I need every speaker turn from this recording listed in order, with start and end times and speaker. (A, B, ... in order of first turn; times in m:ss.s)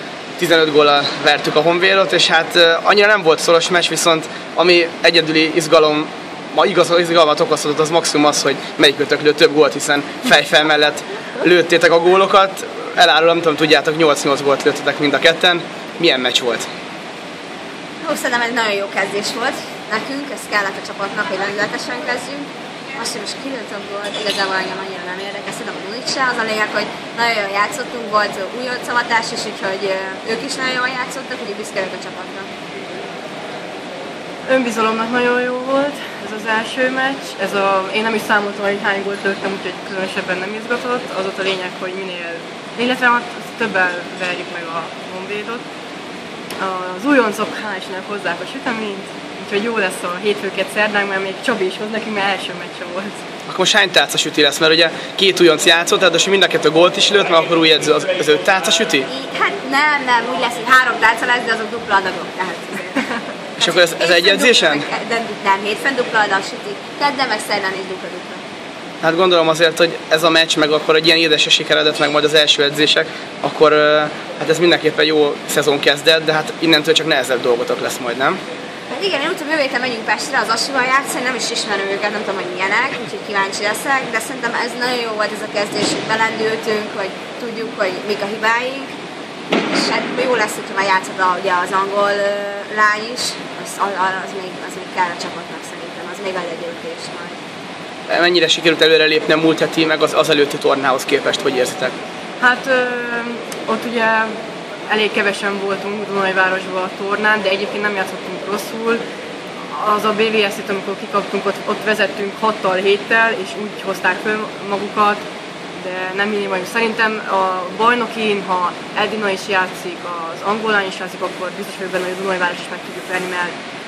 0:00.4-0:16.7 A
0:18.0-0:32.5 B
0:34.5-0:45.6 C
0:46.6-0:53.2 C
0:53.5-0:59.0 A
0:59.1-1:03.0 B
1:03.6-1:04.8 A
1:03.6-1:08.4 B
1:09.0-1:18.4 A
1:18.9-1:28.9 B
1:29.5-1:37.4 B
1:38.1-1:41.9 A
1:42.4-1:44.3 C
1:44.9-1:49.0 C
1:49.7-1:55.2 C
1:55.7-2:03.5 C